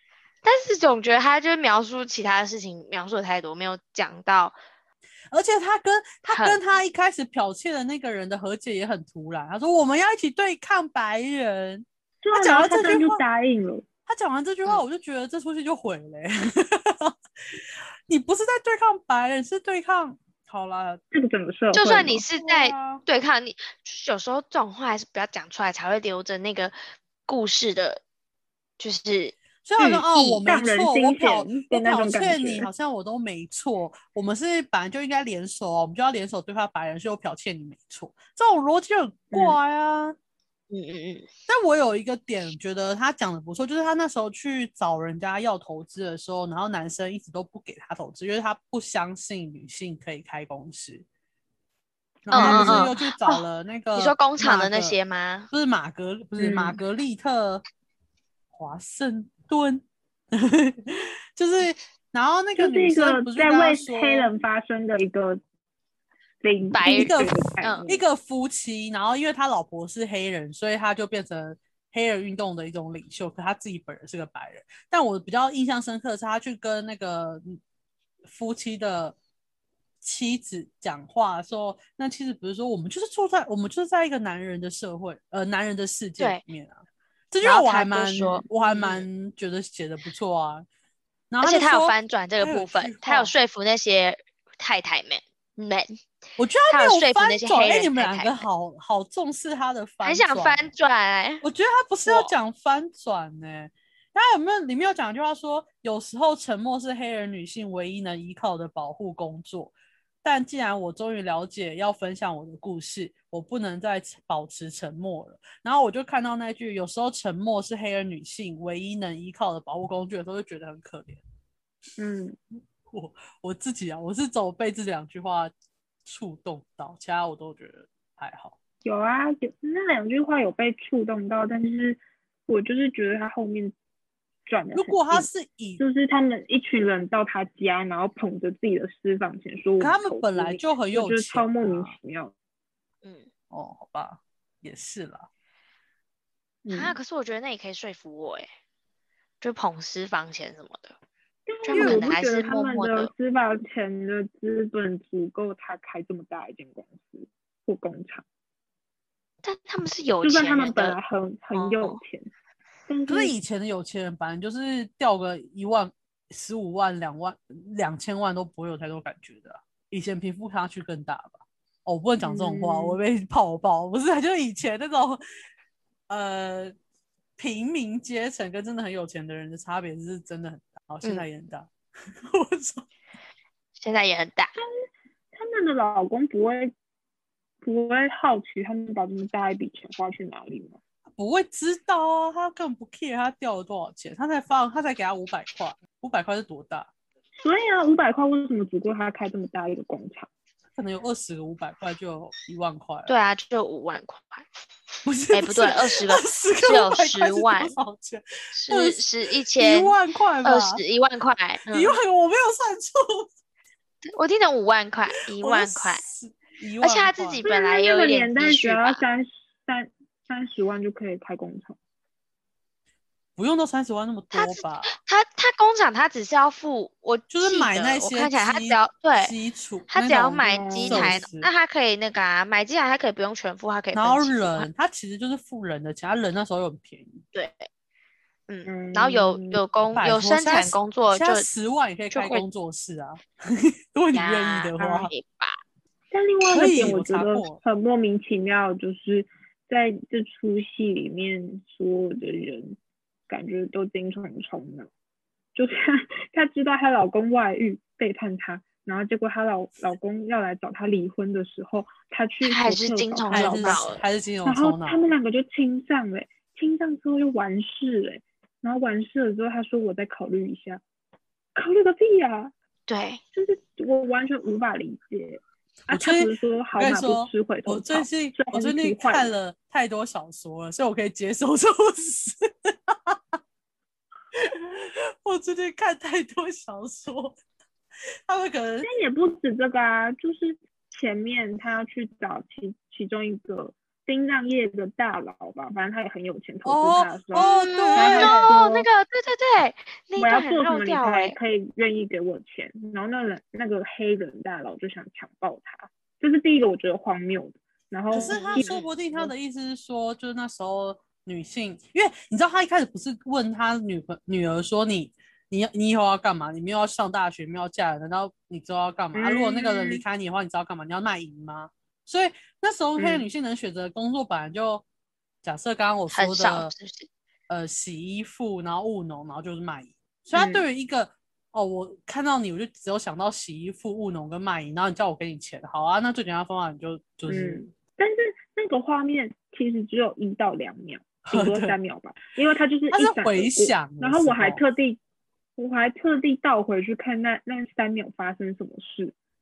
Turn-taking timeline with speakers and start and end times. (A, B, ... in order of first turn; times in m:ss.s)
0:00.4-0:04.6 A
0:05.3-0:13.2 B
0:06.3-0:06.6 A
0:12.2-0:13.8 C
0:14.1-0:21.0 B
0:21.1-0:22.2 C
0:21.7-0:28.0 A
0:22.0-0:23.0 B
0:28.8-0:30.4 A
0:29.6-0:40.2 B
0:30.4-0:32.7 C
0:39.3-0:39.6 C
0:40.7-0:41.3 A
0:41.5-0:51.0 B
0:52.2-0:54.9 B
0:52.3-0:53.4 A
0:52.3-0:52.9 C
0:53.9-0:55.5 A
0:55.5-0:57.6 B
0:56.4-0:56.8 C
0:58.5-1:04.3 B
1:02.6-1:05.4 C
1:06.4-1:08.0 C
1:06.7-1:07.9 A
1:06.9-1:17.6 B
1:18.2-1:19.2 B
1:20.0-1:30.6 B
1:27.4-1:29.0 A
1:31.3-1:33.3 B
1:31.4-1:36.0 A
1:36.4-1:40.6 B
1:36.7-1:38.4 A
1:40.0-1:41.4 A
1:41.4-2:01.2 B
1:42.0-1:42.3 A
2:02.0-2:02.4 C
2:02.9-2:05.5 B
2:06.0-2:08.6 B
2:08.8-2:13.7 C
2:14.4-2:22.3 C
2:14.7-2:15.8 B
2:19.8-2:22.0 B
2:23.5-2:25.3 B
2:26.6-2:27.0 C
2:26.7-2:28.5 A
2:29.4-2:30.9 A
2:31.5-2:38.2 C
2:31.6-2:33.1 A
2:31.7-2:32.0 B
2:39.4-2:41.0 A
2:40.2-2:42.3 C
2:41.5-2:42.0 A
2:42.9-2:43.3 C
2:43.1-2:55.2 B
2:52.2-2:53.0 C
2:56.1-2:56.7 B
2:57.4-3:02.9 B
3:03.8-3:04.5 A
3:05.3-3:06.7 C
3:07.6-3:10.8 C
3:11.1-3:16.9 B
3:17.4-3:20.3 C
3:20.8-3:23.1 B
3:23.1-3:24.4 A
3:25.0-3:30.8 B
3:25.3-3:27.8 A
3:28.5-3:32.0 A
3:31.7-3:33.3 B
3:34.0-3:36.0 A
3:35.4-3:37.4 B
3:36.8-3:39.0 A
3:37.4-3:41.8 C
3:43.4-3:45.0 B
3:44.3-3:49.3 A
3:47.3-3:51.5 B
3:49.9-3:54.7 A
3:50.4-3:51.2 C
3:53.9-3:57.2 B
3:57.3-3:57.7 A
3:58.5-4:01.4 A
3:58.6-3:59.6 C
3:59.9-4:05.1 B
4:02.1-4:02.4 A
4:04.1-4:05.6 A
4:06.1-4:12.8 C
4:06.5-4:07.6 B
4:13.3-4:14.9 C
4:15.5-4:23.9 C
4:22.4-4:24.0 A
4:23.3-4:25.0 B
4:24.4-4:30.8 C
4:31.5-4:32.5 C
4:32.9-4:33.2 A
4:33.3-4:39.3 C
4:35.9-4:43.2 B
4:44.3-4:47.4 B
4:48.2-4:48.9 B
4:48.8-4:58.8 C
4:56.6-4:58.5 B
4:57.3-5:01.4 A
5:00.2-5:09.3 C
5:08.1-5:24.8 B
5:08.1-5:08.8 A
5:19.1-5:20.0 C
5:23.0-5:23.2 C
5:25.4-5:26.7 B
5:26.1-5:27.1 A
5:27.5-5:37.7 B
5:30.3-5:30.6 C
5:37.3-5:45.0 C
5:41.2-5:41.8 B
5:42.9-5:44.6 B
5:45.6-5:49.1 C